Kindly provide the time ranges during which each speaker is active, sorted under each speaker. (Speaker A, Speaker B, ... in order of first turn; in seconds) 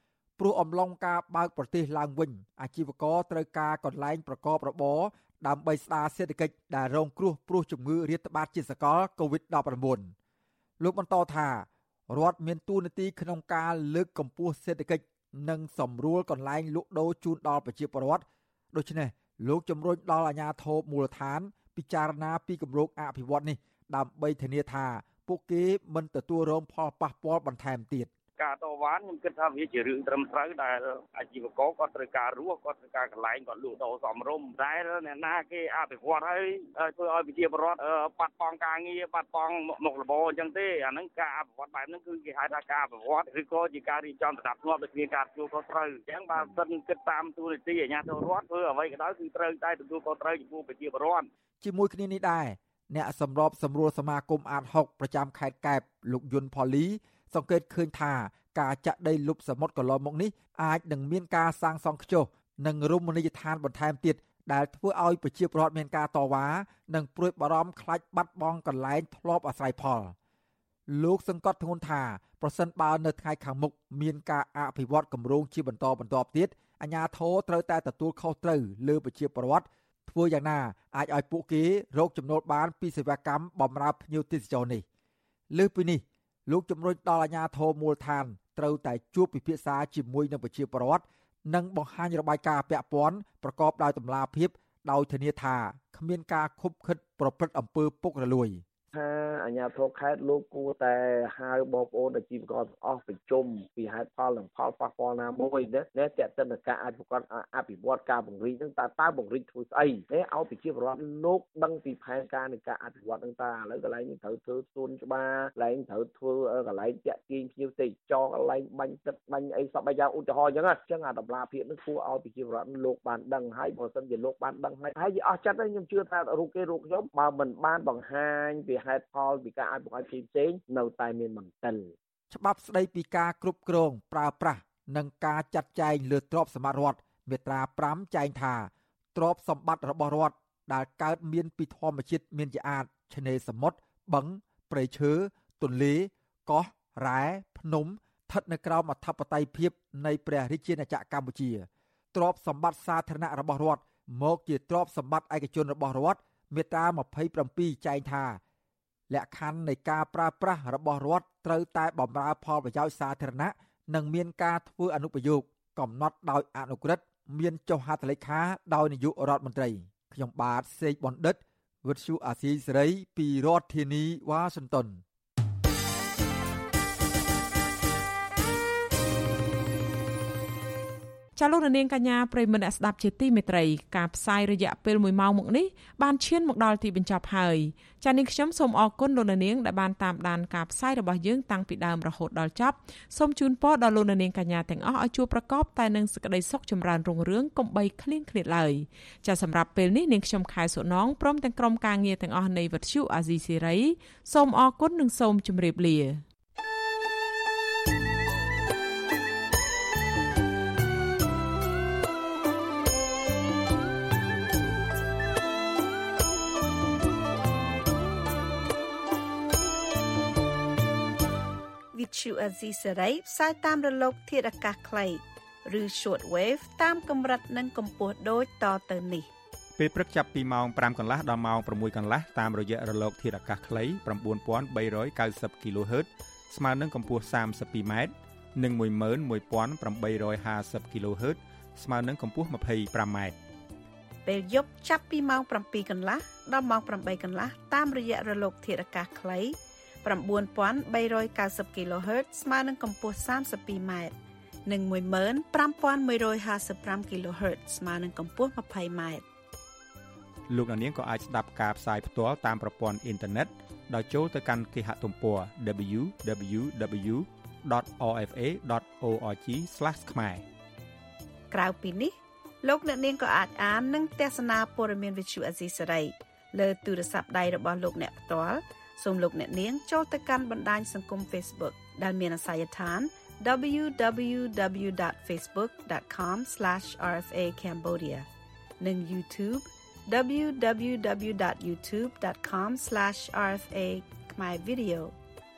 Speaker A: 0.4-10.1, 10.8-28.1, 51.6-70.1, 70.9-84.8, 85.5-98.6, 132.3-158.4, 159.1-175.0
Speaker B: 28.4-51.3
Speaker C: 98.9-131.9
Speaker D: 181.4-206.2
Speaker E: 221.9-229.3, 244.2-254.1, 254.7-259.2, 271.5-288.2, 288.8-295.1
Speaker F: 229.8-243.3, 260.5-270.4